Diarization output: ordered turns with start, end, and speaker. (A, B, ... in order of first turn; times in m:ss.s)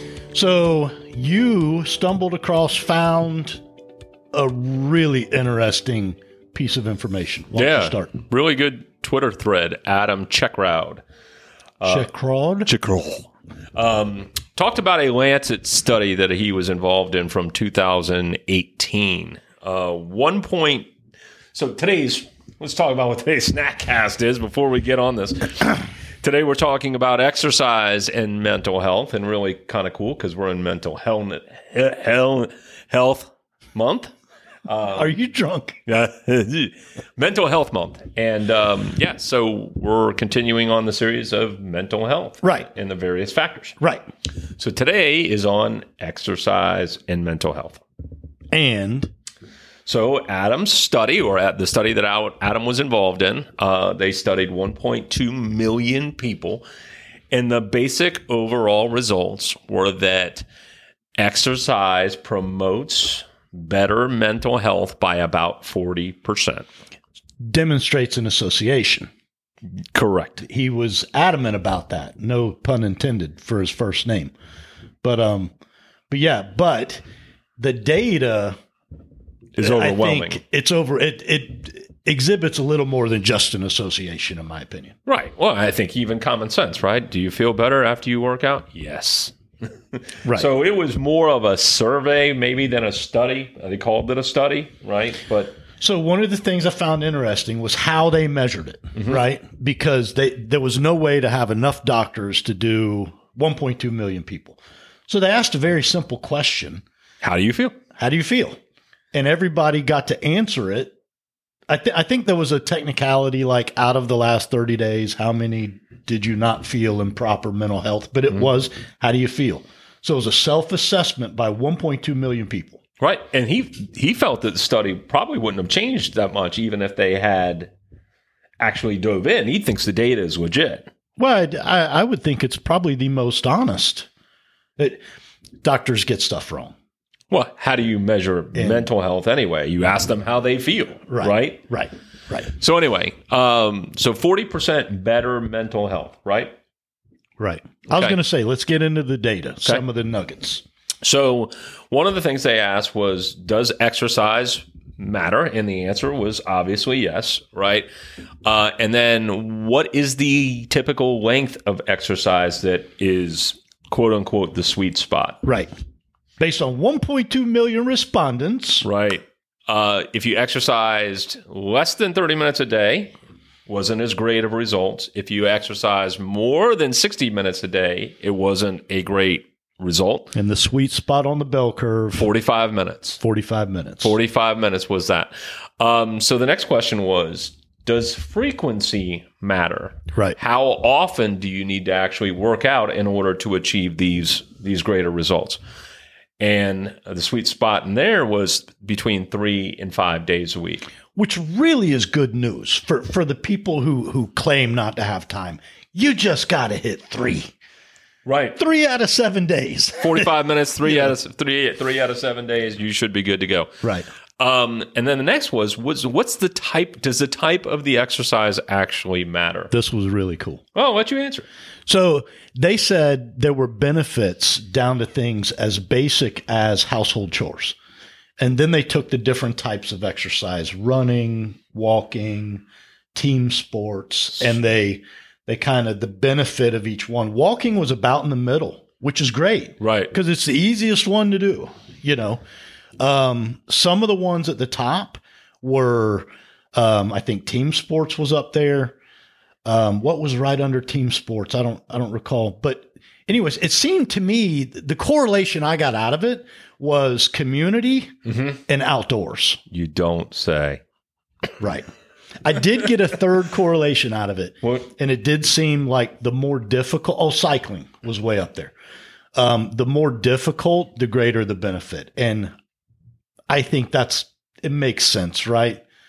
0:00.3-0:03.6 A
0:04.3-0:08.1 A
0:07.5-0:11.0 B
0:11.8-0:12.1 B
0:11.8-0:12.7 A
0:12.6-0:20.9 B
0:21.5-0:34.1 B
0:34.6-0:35.1 B
0:34.9-0:35.8 A
0:35.8-0:43.8 B
0:42.4-0:42.7 A
0:44.6-0:47.8 B
0:48.5-0:49.1 A
0:49.8-0:56.6 B
0:57.3-1:00.4 B
1:01.2-1:06.7 B
1:07.4-1:09.1 A
1:09.9-1:10.4 B
1:10.4-1:14.3 A
1:15.0-1:15.5 A
1:16.1-1:17.0 A
1:17.6-1:18.6 A
1:19.6-1:20.4 B
1:19.6-1:25.0 A
1:25.0-1:29.3 B
1:29.9-1:35.6 B
1:35.8-1:46.8 A
1:47.2-1:47.8 B
1:48.0-1:48.6 A
1:49.1-1:50.9 A
1:51.7-2:02.8 A
2:03.0-2:07.7 B
2:08.6-2:10.9 B
2:11.2-2:14.1 A
2:15.6-2:16.7 A
2:17.3-2:21.6 B
2:18.5-2:18.9 A
2:21.1-2:22.5 A
2:22.4-2:26.5 B
2:27.4-2:30.6 A
2:27.9-2:28.2 B
2:31.0-2:37.9 B
2:38.4-2:45.4 B
2:45.4-2:45.7 A
2:46.4-2:48.8 A
2:48.8-2:53.1 B
2:53.7-3:00.3 B
3:00.3-3:02.3 A
3:02.1-3:03.2 B
3:03.2-3:04.1 A
3:04.0-3:15.6 B
3:16.4-3:20.9 B
3:21.1-3:27.5 A
3:28.2-3:28.6 B
3:28.6-3:30.3 A
3:30.0-3:33.8 B
3:30.8-3:31.1 A
3:34.4-3:39.7 B
3:39.7-3:40.6 A
3:40.7-3:41.5 B
3:41.9-3:47.7 A
3:48.4-3:52.6 A
3:53.1-4:02.4 A
3:59.8-4:00.1 B
4:03.0-4:09.0 A
4:09.6-4:18.1 A
4:18.2-4:18.6 B
4:18.7-4:19.6 A
4:19.7-4:20.8 B
4:21.6-4:21.8 A
4:22.4-4:28.7 A
4:29.3-4:32.5 A
4:33.5-4:35.8 A